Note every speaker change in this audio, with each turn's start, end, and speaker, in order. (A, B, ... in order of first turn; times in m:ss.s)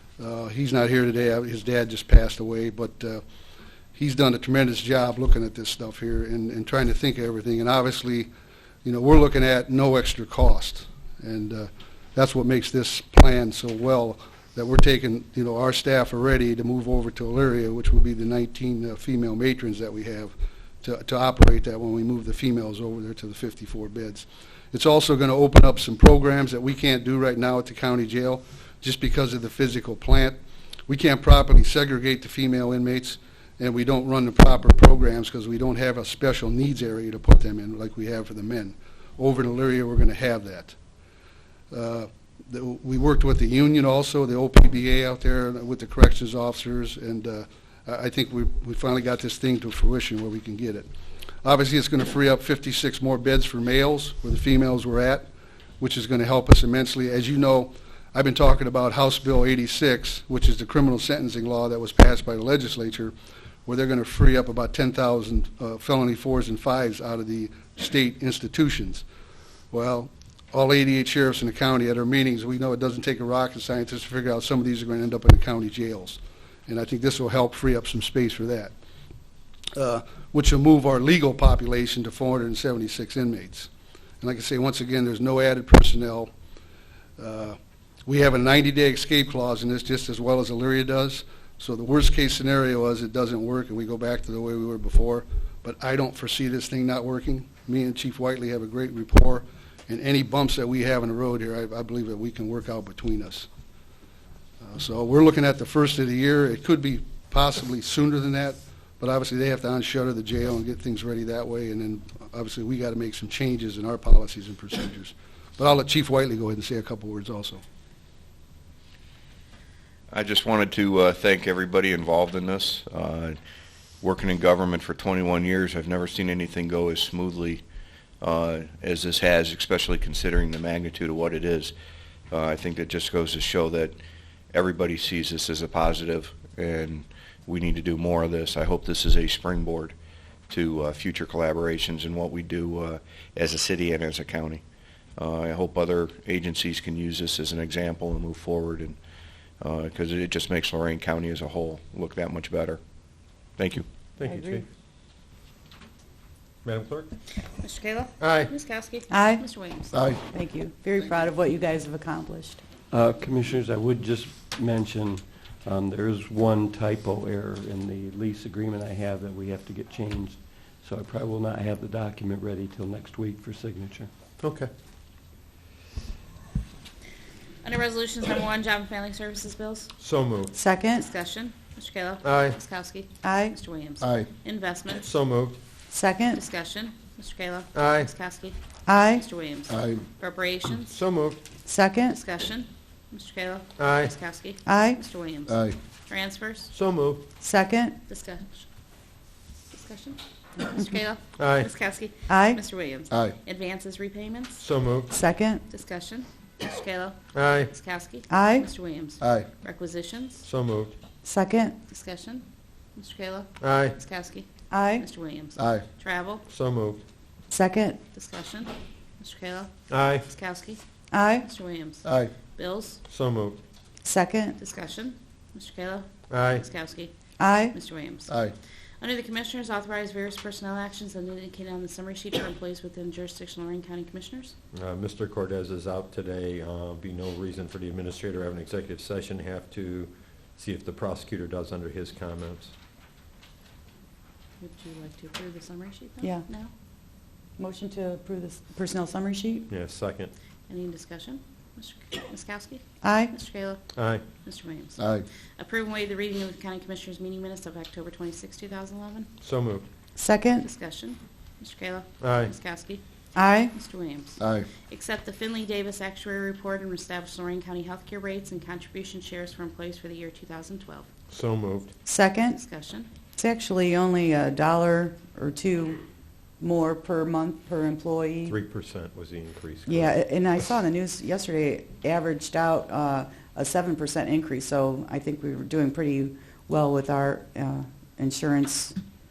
0:00.2-0:03.2 A
0:03.9-0:08.3 A
0:08.8-0:40.8 A
0:41.7-0:50.9 A
0:51.4-0:55.3 A
0:55.8-1:03.1 A
1:03.6-1:09.0 A
1:09.7-1:18.7 A
1:19.7-1:23.7 A
1:24.2-1:26.3 A
1:27.2-1:43.5 A
1:44.6-1:57.6 A
2:00.1-2:03.4 B
2:04.0-2:07.6 B
2:08.2-2:11.7 B
2:12.3-2:14.0 B
2:14.5-2:19.9 B
2:20.5-2:24.6 B
2:25.2-2:29.0 B
2:29.6-2:32.8 B
2:33.6-2:33.8 B
2:34.2-2:34.6 C
2:34.2-2:34.6 D
2:36.6-2:37.1 C
2:37.6-2:40.1 E
2:38.2-2:38.5 C
2:39.1-2:39.4 D
2:40.2-2:42.6 D
2:42.9-2:54.1 F
2:54.4-2:54.7 C
2:57.6-2:59.9 E
3:00.0-3:00.5 C
3:00.5-3:01.1 D
3:00.9-3:05.1 E
3:02.2-3:02.6 C
3:03.2-3:03.6 D
3:05.0-3:05.6 C
3:05.9-3:06.4 D
3:06.3-3:08.6 E
3:07.7-3:08.1 C
3:08.9-3:09.2 D
3:09.1-3:10.9 E
3:10.9-3:11.4 C
3:11.6-3:12.2 D
3:12.1-3:16.7 E
3:13.8-3:14.1 C
3:14.6-3:15.0 D
3:16.7-3:17.2 C
3:17.4-3:18.0 D
3:18.1-3:18.6 E
3:19.7-3:24.6 E
3:21.4-3:21.7 C
3:22.3-3:22.6 D
3:24.6-3:25.1 C
3:25.1-3:25.6 D
3:25.7-3:27.2 E
3:27.3-3:27.7 C
3:27.7-3:30.4 E
3:28.3-3:28.7 D
3:30.4-3:30.9 C
3:31.2-3:31.8 D
3:31.9-3:32.4 E
3:33.0-3:34.5 E
3:33.6-3:34.0 C
3:34.7-3:35.1 D
3:35.0-3:36.4 E
3:36.5-3:37.0 C
3:37.5-3:38.0 D
3:38.1-3:39.7 E
3:39.9-3:40.3 C
3:40.2-3:40.8 E
3:41.1-3:41.5 D
3:41.4-3:43.0 E
3:43.1-3:43.6 C
3:44.0-3:44.6 D
3:44.6-3:47.1 E
3:46.3-3:46.6 C
3:47.4-3:47.8 D
3:47.7-3:48.3 E
3:49.0-3:54.5 E
3:54.7-4:02.7 C
4:04.6-4:06.7 E
4:07.6-4:09.7 D
4:09.7-4:10.3 C
4:10.7-4:13.8 E
4:13.0-4:13.3 D
4:13.9-4:14.2 C
4:14.4-4:15.0 E
4:15.6-4:19.3 E
4:19.4-4:19.9 C
4:20.2-4:20.7 D
4:20.6-4:23.0 E
4:22.2-4:22.5 C
4:23.3-4:23.7 D
4:23.7-4:31.1 E
4:31.3-4:31.9 C
4:32.0-4:32.6 D
4:32.5-4:33.1 E
4:33.4-4:36.0 D
4:36.6-4:38.6 D
4:38.5-4:40.1 C
4:39.8-4:49.0 D